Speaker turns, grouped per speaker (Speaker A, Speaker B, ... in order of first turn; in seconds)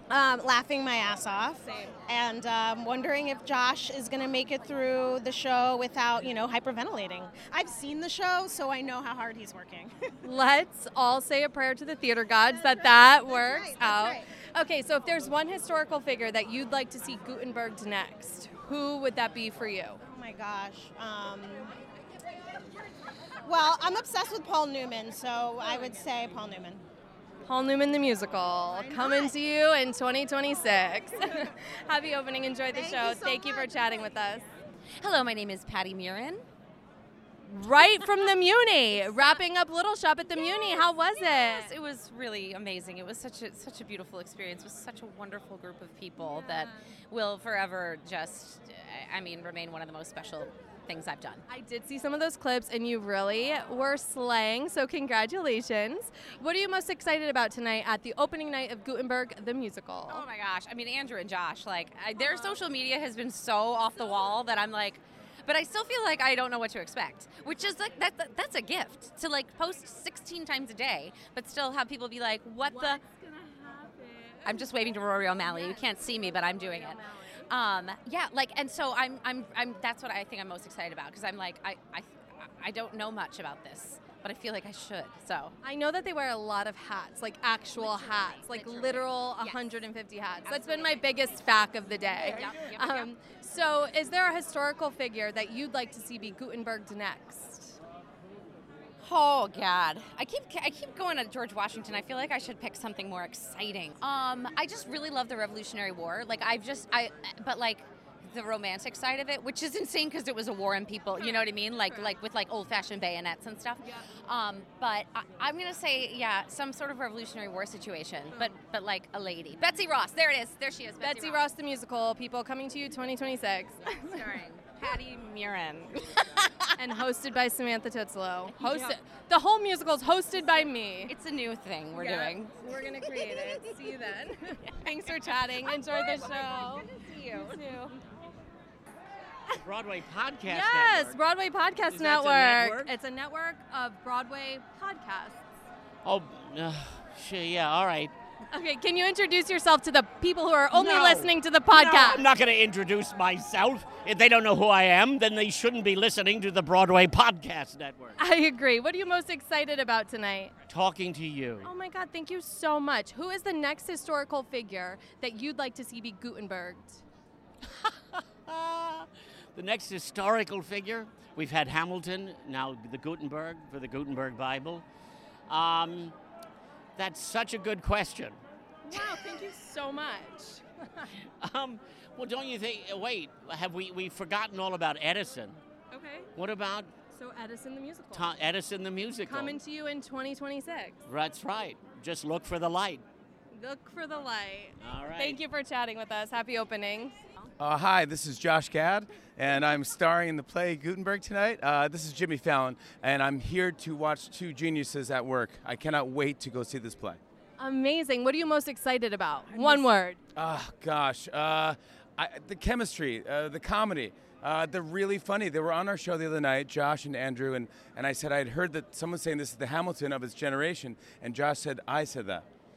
Speaker A: 0.1-9.9, 12.5-14.2, 20.0-21.7, 23.4-26.8, 28.7-29.3, 32.7-34.0
Speaker B: 1.6-1.9, 10.2-20.0, 27.4-34.5, 37.5-41.7, 46.2-46.8, 51.5-60.2, 62.1-62.6, 72.7-74.6, 75.4-75.8, 76.5-77.2, 85.6-97.8, 111.2-112.1, 121.0-124.3, 126.8-131.1, 131.9-137.9, 140.5-145.4, 148.5-152.2, 158.2-160.5, 161.6-167.0, 178.8-181.1, 185.9-186.3, 187.1-188.3, 189.2-191.0, 193.5-197.2, 207.6-210.2
Speaker C: 35.0-36.5, 41.1-51.4, 60.1-73.0, 74.4-85.5, 87.7-89.8, 90.4-91.4, 92.1-93.1, 99.0-121.5, 124.0-126.6, 128.5-129.0, 131.1-133.9, 134.6-137.8
Speaker D: 139.6-141.2, 141.9-142.9, 146.0-148.1, 150.7-158.2, 160.7-161.7, 168.5-174.8, 175.5-176.2, 176.9-178.4, 181.4-185.6, 186.3-186.9, 188.1-189.6, 191.1-193.0, 194.8-195.4
Speaker E: 197.6-207.2, 210.3-222.4